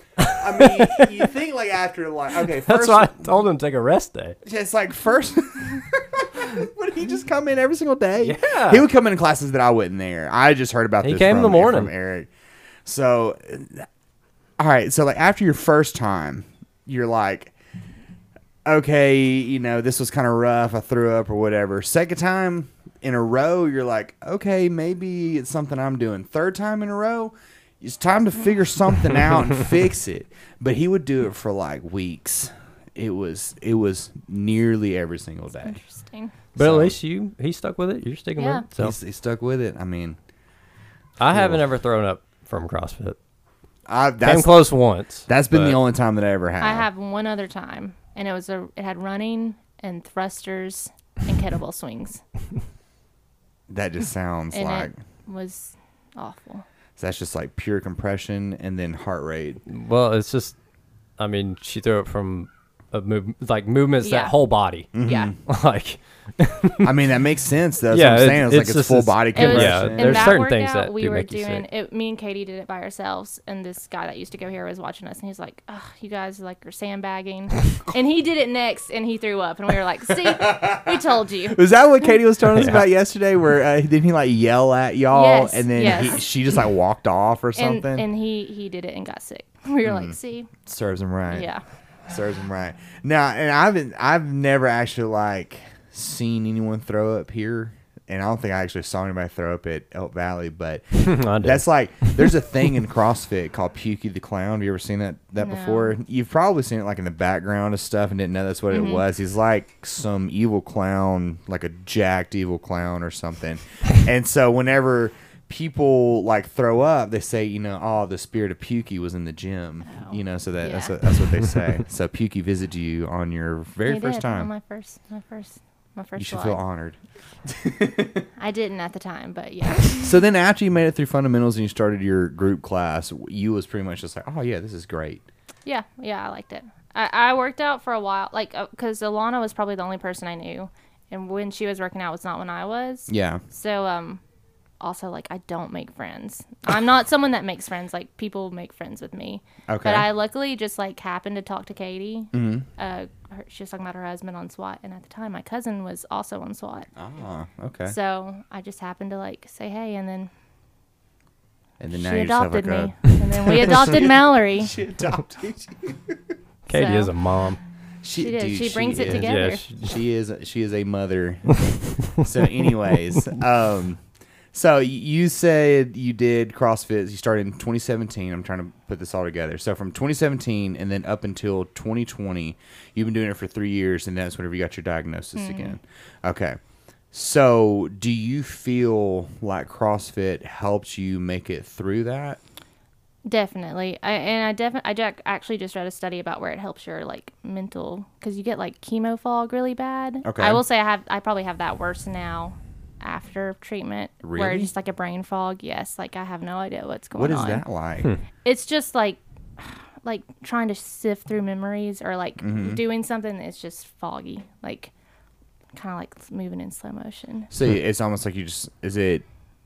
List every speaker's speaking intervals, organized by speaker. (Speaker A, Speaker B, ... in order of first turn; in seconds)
Speaker A: 0.2-1.1, 2.6-4.4, 8.2-8.8, 11.0-11.9, 36.5-39.0, 41.2-43.2, 44.2-45.8, 59.7-60.5, 61.2-67.0, 67.9-71.6, 82.5-82.8, 101.0-102.4, 166.7-167.6, 169.0-169.9
Speaker B: 0.2-3.3, 4.4-12.3, 12.8-13.9, 14.6-17.5, 18.6-35.8, 36.5-37.0, 38.8-40.2, 41.3-41.6, 43.9-44.7, 45.3-46.9, 53.7-54.9, 57.0-59.6, 64.9-65.4, 66.8-70.4, 80.3-88.0, 89.8-91.5, 92.1-124.5, 126.2-128.2, 130.0-135.2, 143.1-143.4, 149.7-150.1, 152.3-152.7, 156.9-157.9, 161.8-166.2, 168.0-174.0, 174.5-186.6, 187.1-192.4, 200.2-200.6, 204.2-204.7, 207.2-208.1, 212.4-212.8, 217.5-219.2
Speaker C: 35.6-36.3, 38.4-38.6, 46.6-52.2, 54.5-56.6, 64.0-64.3, 65.0-65.3, 69.3-81.6, 85.1-86.2, 87.5-90.5, 91.3-91.6, 105.4-106.0, 108.7-109.0, 119.8-121.0, 123.8-126.6, 128.4-130.2, 135.7-144.2, 144.8-156.9, 157.8-160.3, 161.9-164.7, 166.7-167.1, 168.2-169.6, 185.3-185.8, 193.2-207.6, 208.4-214.9, 215.7-217.5